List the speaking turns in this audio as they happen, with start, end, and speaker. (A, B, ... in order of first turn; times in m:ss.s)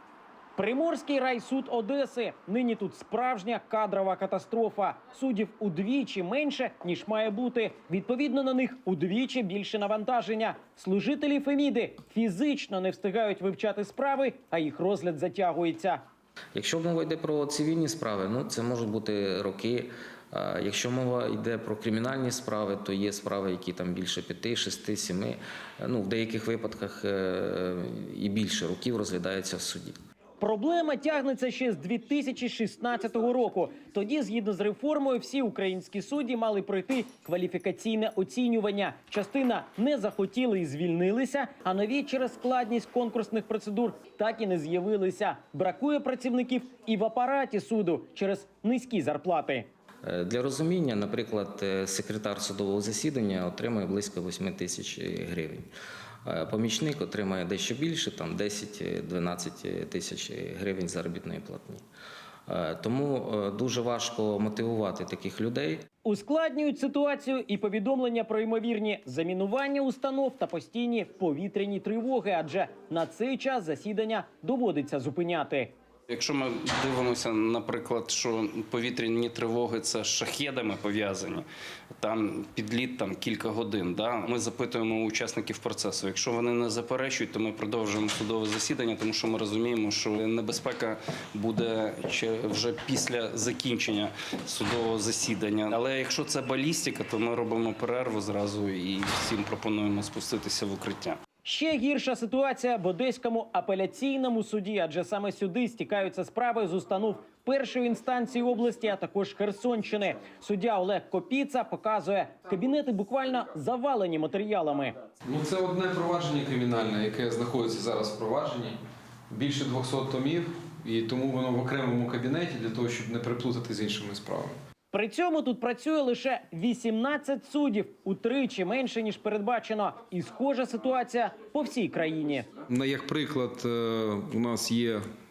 0:00.6-0:16.0 A
0:16.5-0:30.0 B
0:30.4-0:49.7 A
0:50.0-0:55.7 B
0:56.2-1:01.8 B
1:02.5-1:05.8 B
1:06.0-1:15.7 A
1:16.1-1:21.4 C
1:22.0-1:41.2 C
1:41.4-1:55.0 A
1:55.3-1:58.8 D
1:59.3-2:04.6 D
2:04.9-2:12.5 A
2:12.7-2:15.0 D